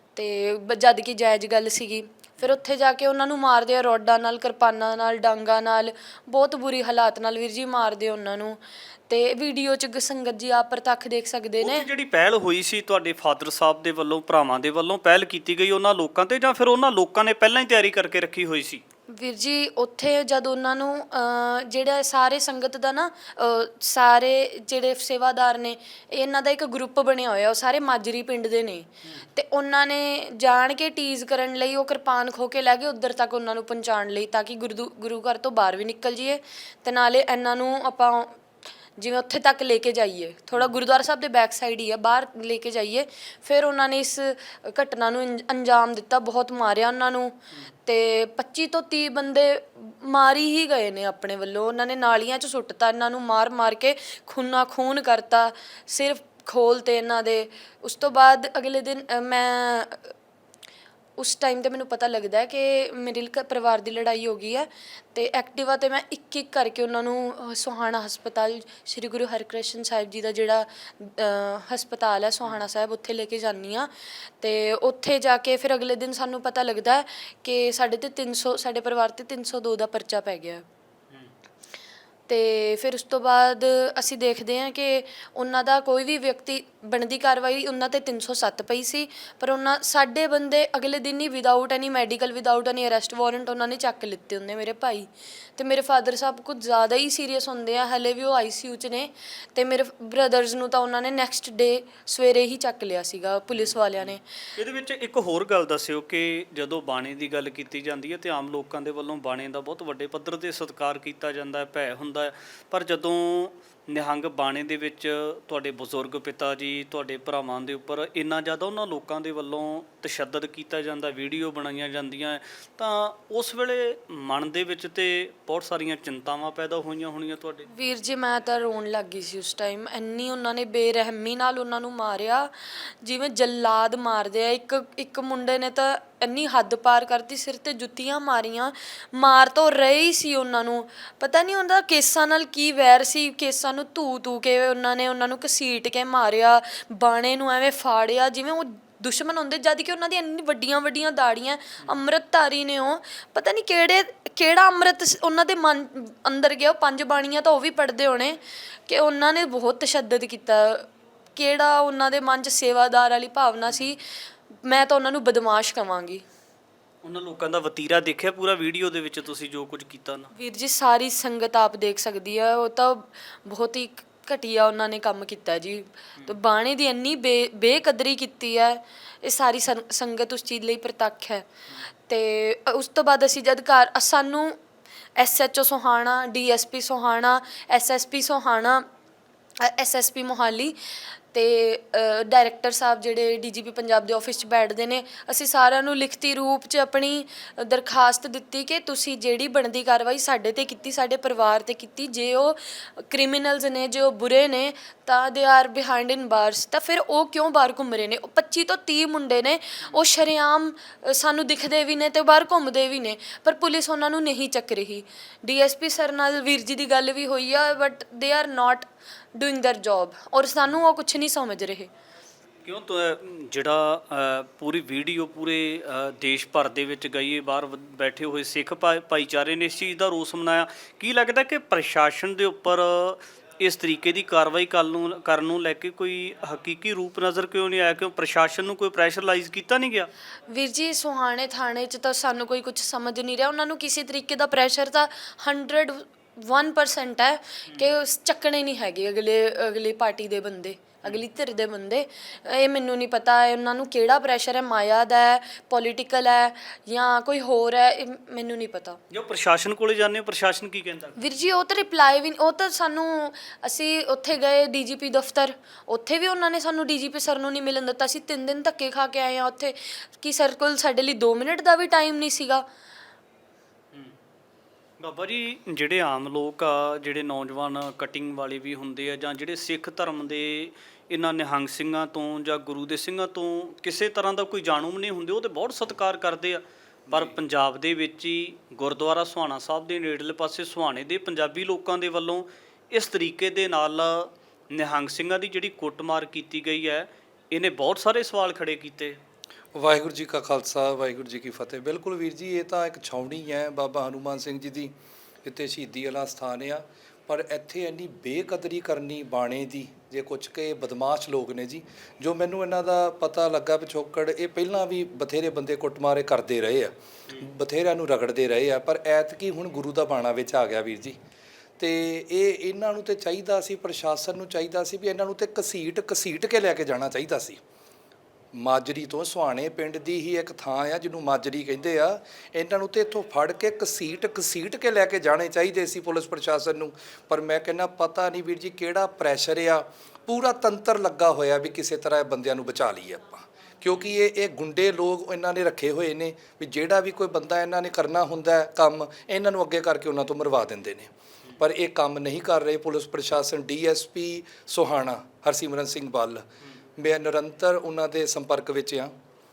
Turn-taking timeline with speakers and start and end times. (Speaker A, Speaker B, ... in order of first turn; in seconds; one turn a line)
Speaker A: 0.1-11.9
Speaker B: 11.6-18.8
Speaker A: 19.1-38.4
Speaker A: 39.0-60.1
Speaker A: 61.2-80.6
Speaker A: 82.3-104.2
Speaker B: 103.5-127.7
Speaker A: 127.7-164.0
Speaker A: 164.6-166.2
Speaker B: 167.0-170.3
Speaker A: 170.3-181.5
Speaker A: 182.1-184.6
Speaker A: 185.2-188.8
Speaker A: 189.6-190.8
Speaker A: 191.3-221.9
Speaker B: 222.6-240.1
Speaker A: 240.5-259.0
Speaker B: 259.1-261.1
Speaker A: 261.2-272.6
Speaker B: 275.0-299.2
Speaker C: 287.1-287.4
Speaker C: 299.7-304.9
Speaker C: 305.4-321.2
Speaker C: 321.8-327.6
Speaker C: 328.5-356.4
Speaker C: 357.0-359.1